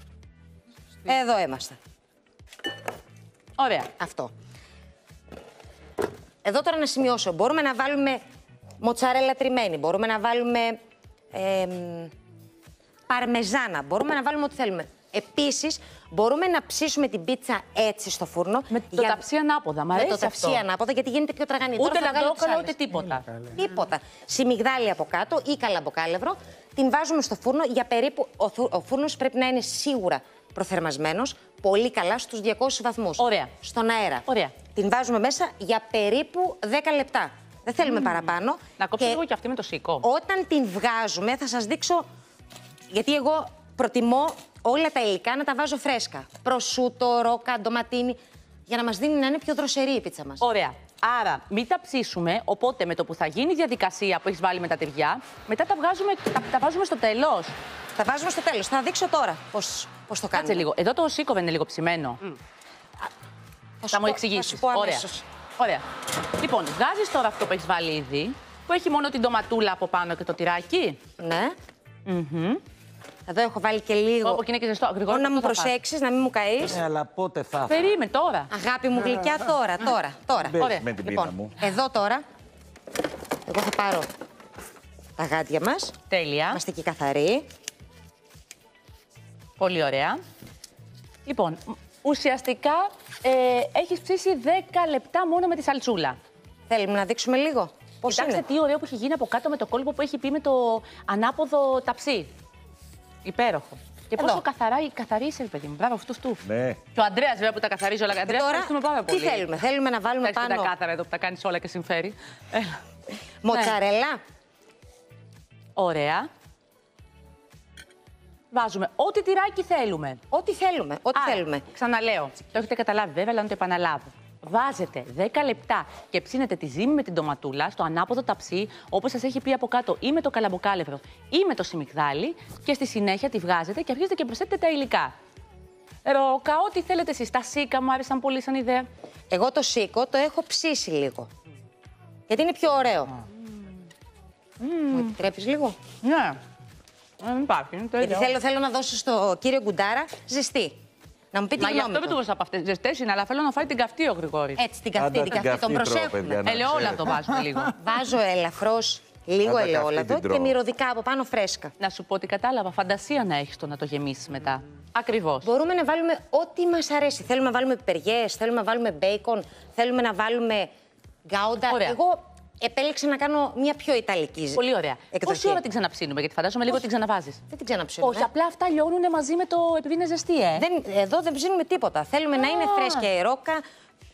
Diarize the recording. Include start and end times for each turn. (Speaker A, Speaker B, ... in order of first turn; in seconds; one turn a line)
Speaker A: 1.1-1.8
Speaker B: 3.6-3.9
Speaker A: 4.0-4.3
Speaker A: 6.4-8.2
Speaker A: 8.8-10.8
Speaker A: 11.3-12.1
Speaker A: 13.1-19.2
Speaker B: 18.7-20.6
Speaker A: 19.9-22.8
Speaker B: 21.8-23.4
Speaker A: 23.4-39.2
Speaker B: 33.2-33.5
Speaker B: 34.3-34.5
Speaker B: 37.9-38.2
Speaker B: 38.8-40.0
Speaker A: 40.0-42.1
Speaker A: 42.9-50.4
Speaker B: 50.4-57.5
Speaker A: 58.0-60.7
Speaker B: 60.3-62.4
Speaker A: 63.8-65.1
Speaker B: 63.9-65.8
Speaker B: 66.4-71.0
Speaker A: 71.2-71.5
Speaker B: 72.1-72.6
Speaker A: 73.3-74.5
Speaker B: 74.2-75.7
Speaker A: 75.1-76.8
Speaker C: 76.7-77.8
Speaker B: 77.7-78.5
Speaker A: 78.5-82.2
Speaker C: 80.5-81.6
Speaker B: 80.6-80.9
Speaker A: 83.5-84.1
Speaker A: 85.2-85.9
Speaker B: 86.1-86.6
Speaker A: 86.5-87.5
Speaker B: 89.6-90.2
Speaker B: 91.2-96.2
Speaker A: 96.7-98.4
Speaker B: 98.1-102.3
Speaker B: 103.2-109.5
Speaker A: 104.1-104.4
Speaker C: 106.5-106.8
Speaker A: 108.3-110.7
Speaker B: 110.2-112.8
Speaker A: 113.4-114.2
Speaker B: 115.8-116.3
Speaker B: 118.5-120.2
Speaker A: 120.3-121.6
Speaker B: 121.2-135.1
Speaker B: 136.1-138.9
Speaker A: 139.3-141.3
Speaker A: 142.3-143.1
Speaker B: 144.6-145.1
Speaker A: 144.9-145.8
Speaker B: 146.0-146.4
Speaker B: 147.2-148.3
Speaker A: 148.0-150.8
Speaker A: 151.3-152.2
Speaker B: 151.6-154.6
Speaker A: 154.6-156.6
Speaker C: 155.0-157.1
Speaker B: 156.4-157.8
Speaker A: 157.7-161.7
Speaker C: 159.4-160.6
Speaker B: 161.8-165.5
Speaker A: 165.4-170.7
Speaker A: 171.3-175.6
Speaker B: 171.7-172.0
Speaker B: 174.6-177.4
Speaker A: 177.5-178.3
Speaker B: 178.0-180.7
Speaker A: 180.6-183.6
Speaker B: 182.4-183.1